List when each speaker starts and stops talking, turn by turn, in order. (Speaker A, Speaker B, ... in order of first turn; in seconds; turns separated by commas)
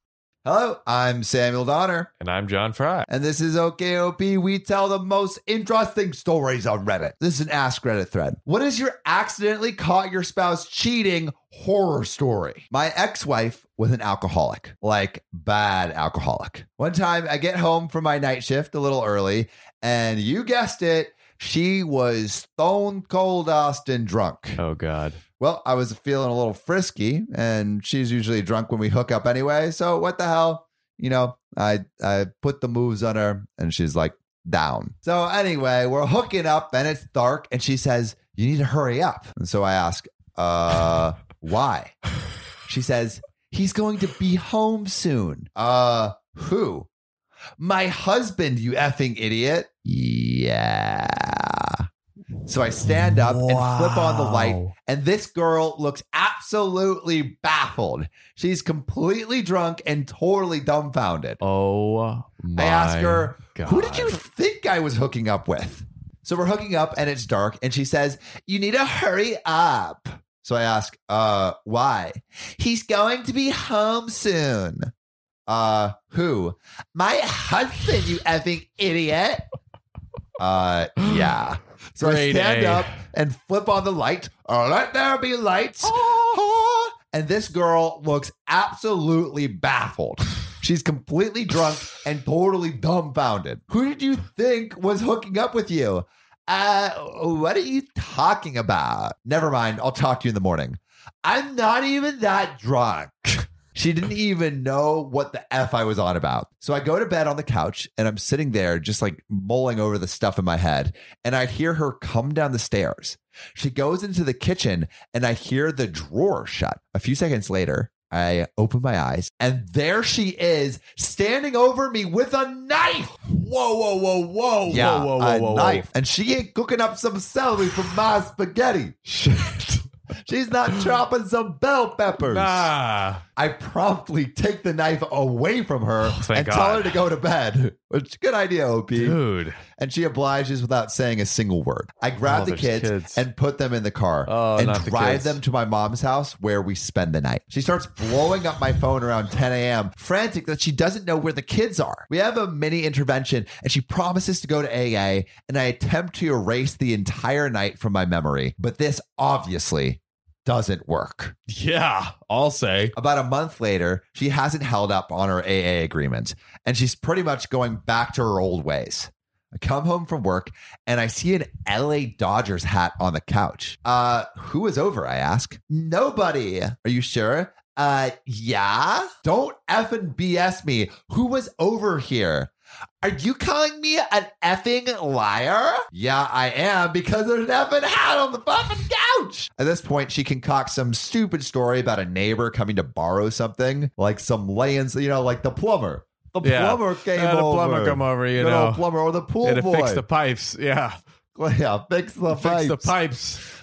Speaker A: 0.4-2.1, Speaker B: 2.2-3.1, Speaker A: 3.0-24.6, Speaker B: 24.6-25.3, Speaker A: 25.3-42.0, Speaker A: 42.7-46.9, Speaker A: 47.6-51.9, Speaker A: 52.5-61.4, Speaker B: 52.9-54.8, Speaker B: 61.4-64.2, Speaker A: 62.6-74.9, Speaker A: 75.5-79.4, Speaker A: 80.4-123.3, Speaker B: 81.0-81.2, Speaker B: 82.0-83.0, Speaker B: 123.2-125.9, Speaker A: 124.7-129.0, Speaker B: 129.1-129.8, Speaker A: 130.3-132.7, Speaker B: 132.2-133.3, Speaker A: 133.3-161.4, Speaker B: 136.1-137.1, Speaker B: 138.9-139.7, Speaker B: 142.2-143.2, Speaker B: 144.3-145.4, Speaker B: 161.5-162.9, Speaker A: 162.9-182.5, Speaker A: 183.0-200.0, Speaker B: 196.4-198.9, Speaker B: 199.4-200.9, Speaker A: 201.3-203.0, Speaker B: 202.3-203.4